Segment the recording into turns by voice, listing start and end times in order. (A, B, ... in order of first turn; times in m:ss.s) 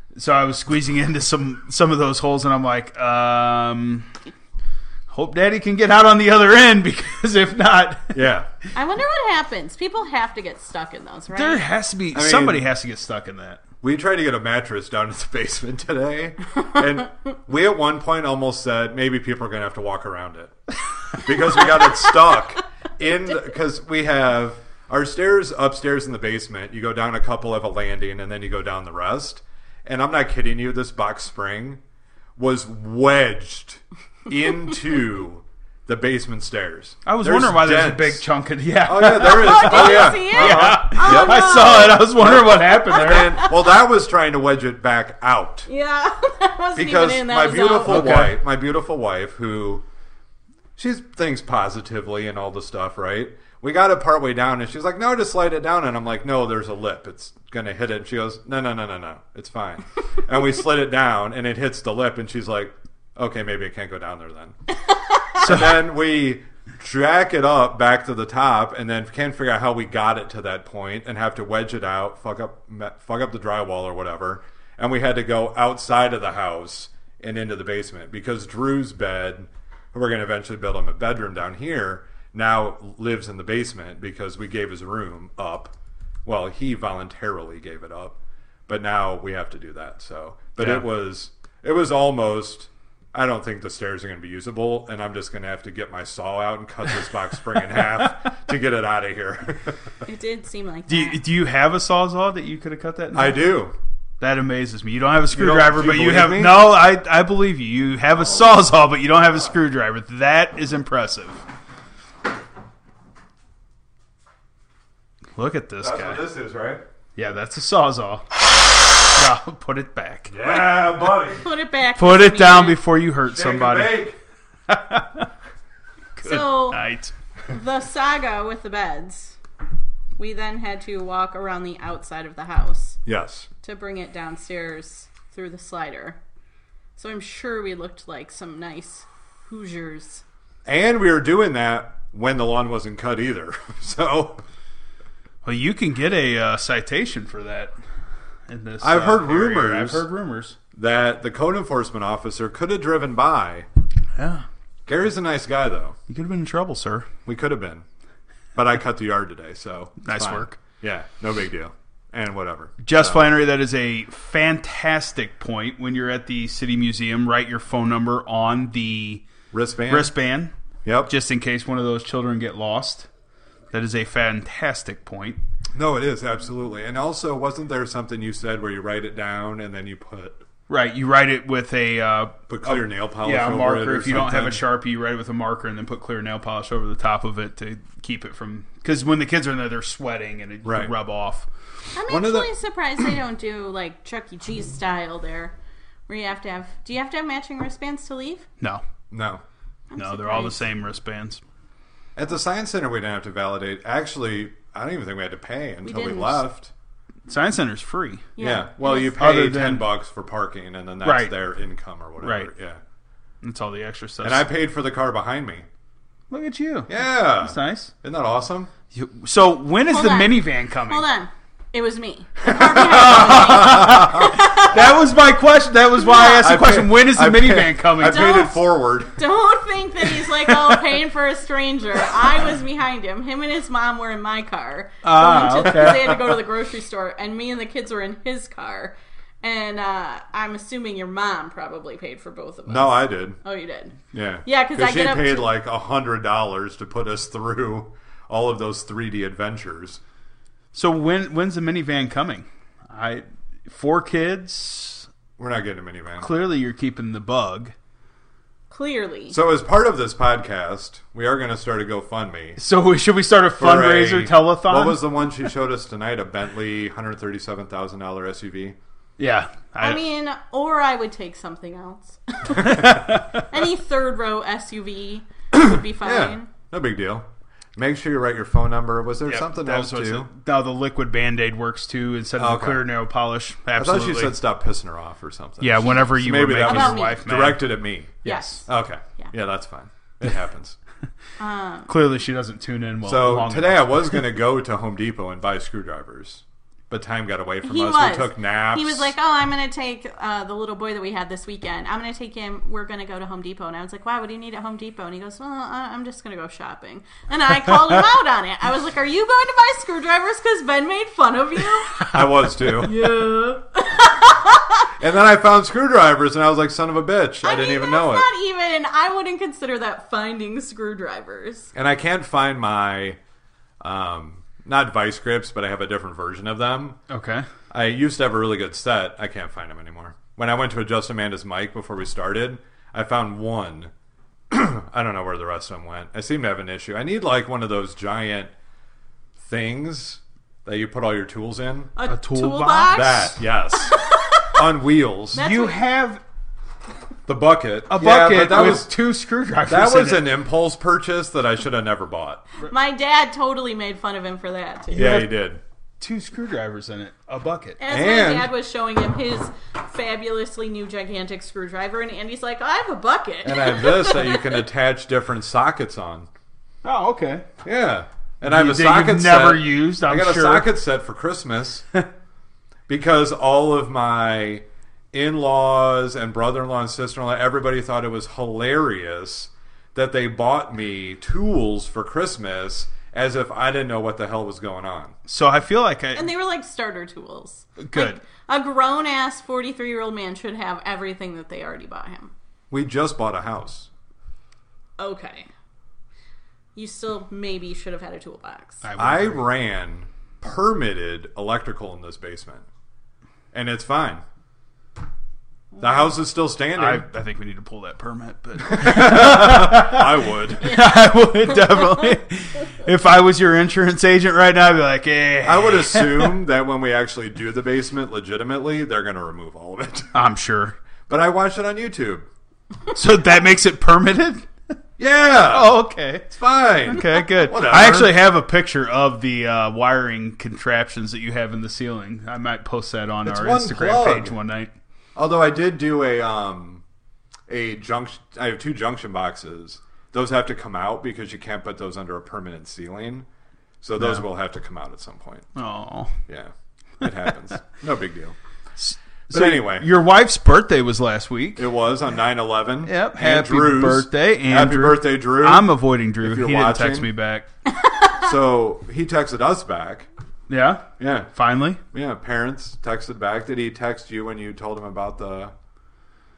0:00.2-0:04.1 A
0:05.1-0:08.2 A
0:08.1-0:08.5 B
0:08.8-0:11.6 C
0:11.3-0:13.6 A
0:12.1-0:12.6 B
0:13.8-0:20.6 B
0:21.1-0:31.8 B
0:32.4-0:38.3 B
0:37.1-0:43.4 A
0:38.8-0:45.7 B
0:39.2-0:42.2 C
0:43.0-0:43.6 C
0:45.7-0:48.1 C
0:46.8-0:49.8 B
0:47.8-0:48.4 A
0:50.8-1:04.6 B
1:05.4-1:25.7 B
1:05.4-1:05.8 A
1:26.2-1:39.8 B
1:30.6-1:30.9 A
1:40.1-1:41.2 C
1:40.9-1:43.5 A
1:43.1-1:43.7 B
1:44.2-1:51.4 A
1:45.3-1:46.7 B
1:55.4-1:56.2 A
1:55.8-1:56.8 B
1:57.2-1:58.3 A
1:59.1-2:00.7 A
2:00.3-2:01.4 B
2:01.4-2:02.8 C
2:02.0-2:04.0 A
2:03.3-2:04.2 B
2:04.7-2:05.3 A
2:06.2-2:07.1 A
2:06.2-2:06.8 C
2:07.5-2:09.4 C
2:10.2-2:13.0 C
2:13.1-2:13.5 B
2:13.6-2:16.2 C
2:17.0-2:20.2 C
2:20.7-2:24.4 B
2:25.4-2:27.8 A
2:28.5-2:30.6 A
2:28.8-2:30.1 B
2:30.7-2:33.7 B
2:34.2-2:34.4 A
2:34.9-2:36.0 B
2:36.1-2:37.1 A
2:37.2-2:37.8 B
2:38.6-2:43.3 B
2:40.0-2:40.6 A
2:42.8-2:49.2 A
2:49.5-2:50.1 B
2:49.9-2:50.5 A
2:50.8-2:51.1 B
2:51.1-2:53.1 A
2:53.7-2:55.4 A
2:55.8-3:00.4 B
3:00.7-3:11.5 A
3:02.5-3:04.6 B
3:10.6-3:10.9 B
3:11.9-3:15.6 C
3:12.1-3:12.5 B
3:16.1-3:18.5 C
3:19.1-3:19.4 B
3:19.9-3:20.6 C
3:20.0-3:21.4 A
3:22.2-3:26.7 B
3:25.8-3:26.5 C
3:27.3-3:28.3 A
3:28.4-3:29.2 C
3:28.4-3:32.8 B
3:29.2-3:29.9 A
3:31.0-3:31.4 A
3:32.2-3:32.5 A
3:33.4-3:34.5 A
3:34.2-3:35.7 B
3:36.3-3:37.9 A
3:36.9-3:38.7 B
3:38.9-3:41.1 A
3:39.9-3:45.0 C
3:42.4-3:44.3 B
3:42.6-3:48.4 A
3:46.0-3:46.5 C
3:46.4-3:49.2 B
3:48.0-4:05.5 C
3:50.3-3:50.8 A
3:55.0-3:56.2 A
3:55.0-3:56.2 B
4:02.7-4:03.4 B
4:04.1-4:10.0 B
4:10.7-4:15.1 A
4:15.4-4:16.3 B
4:16.2-4:17.7 A
4:18.7-4:19.4 C
4:19.3-4:22.6 B
4:22.6-4:25.0 A
4:23.6-4:28.8 B
4:29.2-4:30.0 A
4:29.8-4:36.5 C
4:32.6-4:33.5 A
4:32.6-4:32.8 B
4:35.5-4:40.3 B
4:39.3-4:44.4 A
4:42.4-4:42.8 B
4:43.8-4:50.8 B
4:45.6-4:47.7 A
4:46.6-4:47.3 C
4:48.2-4:48.6 A
4:48.2-4:49.3 C
4:51.4-4:51.9 C
4:51.9-4:54.2 A
4:53.0-4:59.1 B
4:57.6-5:12.1 C
5:12.0-5:12.9 B
5:12.8-5:14.9 C
5:15.0-5:18.3 B
5:17.4-5:21.7 C
5:21.7-5:23.2 B
5:23.8-5:27.0 B
5:27.1-5:27.5 A
5:27.7-5:33.9 B
5:34.5-5:38.5 B
5:39.4-5:41.9 B
5:42.0-5:44.6 C
5:42.1-5:43.2 A
5:42.9-5:45.4 B
5:45.3-5:45.9 C
5:45.4-5:46.2 A
5:47.3-5:48.9 B
5:47.9-5:50.3 A
5:49.7-5:52.4 B
5:52.6-5:55.3 C
5:54.9-5:55.6 B
5:55.0-5:55.3 A
5:56.0-5:57.8 A
5:57.8-6:04.6 C
5:57.9-5:58.5 B
6:03.4-6:06.3 B
6:06.8-6:07.5 A
6:07.6-6:11.9 B
6:08.4-6:10.7 A
6:12.9-6:25.2 B
6:25.3-6:26.3 A
6:26.2-6:32.3 C
6:27.8-6:28.2 A
6:32.7-6:33.9 B
6:35.0-6:35.5 C
6:36.8-6:38.8 C
6:38.8-6:39.4 A
6:39.0-6:42.7 B
6:43.5-6:44.2 B
6:45.8-6:47.0 B
6:46.8-6:56.4 A
6:48.6-6:50.7 B
6:51.5-6:52.2 C
6:55.4-7:00.1 B
7:00.1-7:00.8 A
7:01.1-7:02.3 B
7:02.9-7:04.5 A
7:05.0-7:08.2 B
7:05.5-7:06.3 A
7:06.8-7:14.7 A
7:13.2-7:14.4 B
7:15.2-7:16.8 B
7:17.5-7:23.3 B
7:23.8-7:25.5 B
7:24.0-7:24.2 A
7:25.6-7:26.1 A
7:26.3-7:28.4 B
7:28.8-7:31.6 A
7:29.3-7:29.9 B
7:31.6-7:37.1 B
7:32.8-7:37.5 A
7:37.8-7:38.1 C
7:38.2-7:40.1 B
7:40.5-7:41.8 A
7:41.0-7:41.3 B
7:41.9-7:45.5 B